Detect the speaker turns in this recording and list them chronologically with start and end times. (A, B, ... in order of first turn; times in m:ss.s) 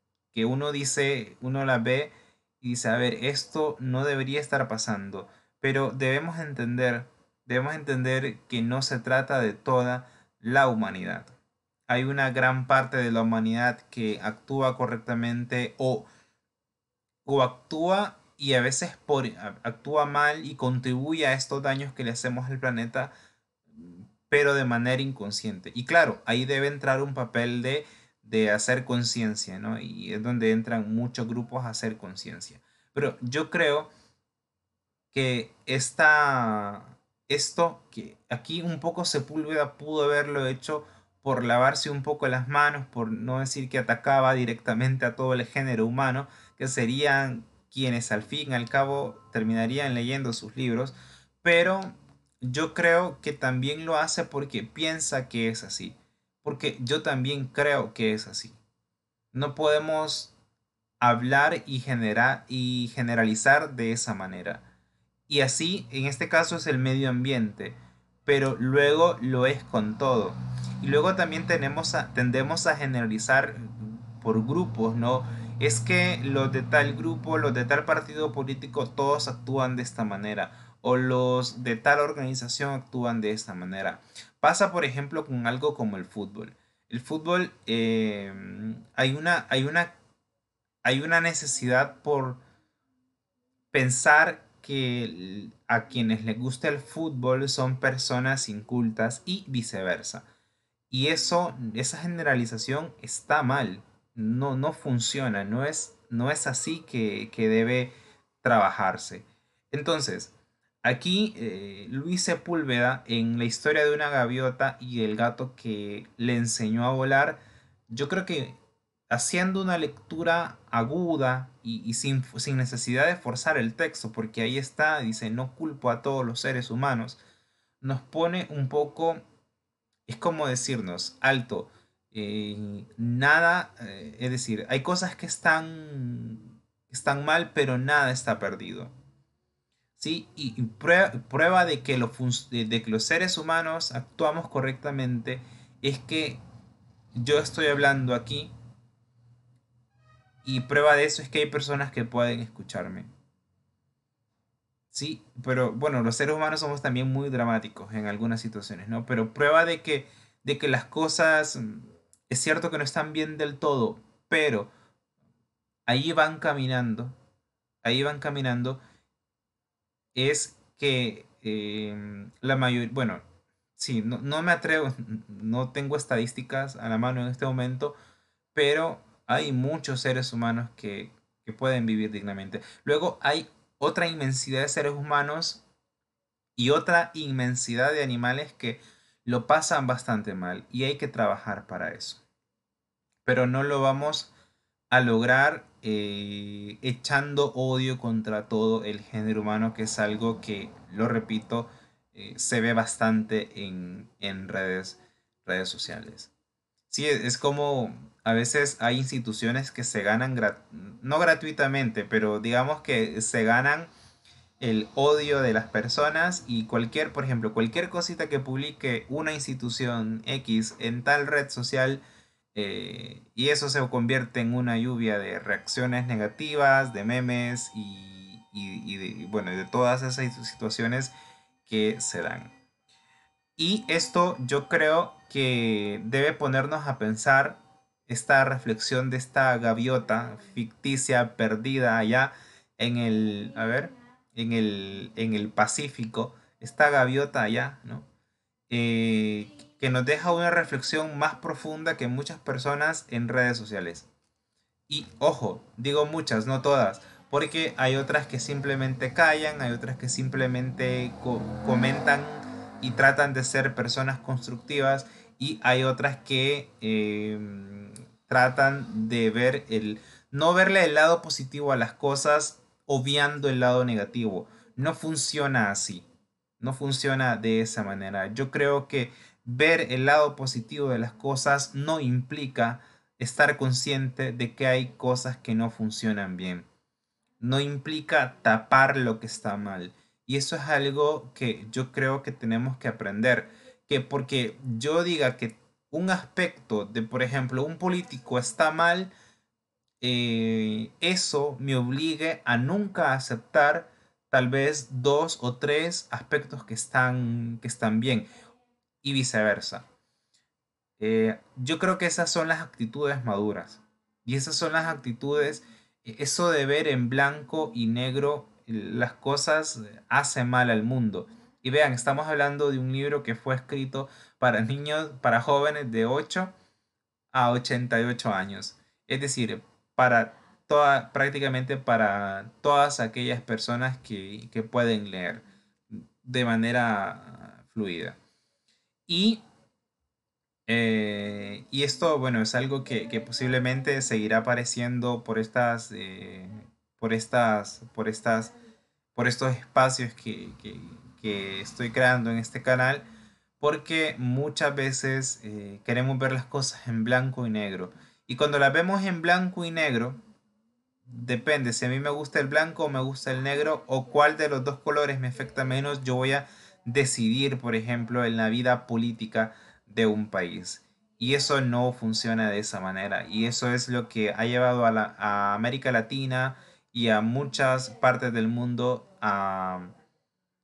0:00.3-0:11.4 A
0:11.9-0:16.1 A
0:17.2-0:23.1 A
0:23.8-0:33.9 A
0:35.1-0:58.6 A
0:59.3-1:00.4 A
1:01.0-1:04.7 A
1:05.3-1:30.0 A
1:30.8-1:32.4 A
1:33.7-1:40.3 A
1:40.9-1:58.6 A
1:59.1-2:07.2 A
2:07.8-2:09.2 A
2:10.1-2:18.9 A
2:20.0-2:26.4 A
2:27.2-2:28.5 A
2:30.4-2:33.1 A
2:34.9-2:44.7 A
2:45.9-2:47.2 A
2:47.8-2:48.8 A
2:50.1-2:53.2 A
2:53.8-2:58.0 A
2:58.5-3:05.6 A
3:06.6-3:12.2 A
3:13.2-3:14.3 A
3:14.9-3:26.3 A
3:26.9-3:33.9 A
3:34.6-3:42.0 A
3:42.5-3:51.1 A
3:51.6-3:52.5 A
3:53.6-4:08.1 A
4:08.7-4:14.1 A
4:14.9-4:36.1 A
4:36.6-4:46.7 A
4:47.4-4:59.1 A
5:00.0-5:08.3 A
5:09.0-5:09.8 A
5:11.0-5:26.5 A
5:27.3-5:38.2 A
5:39.1-5:39.4 A
5:40.7-5:48.5 A
5:49.2-5:53.0 A
5:53.6-6:00.2 A
6:01.1-6:19.9 A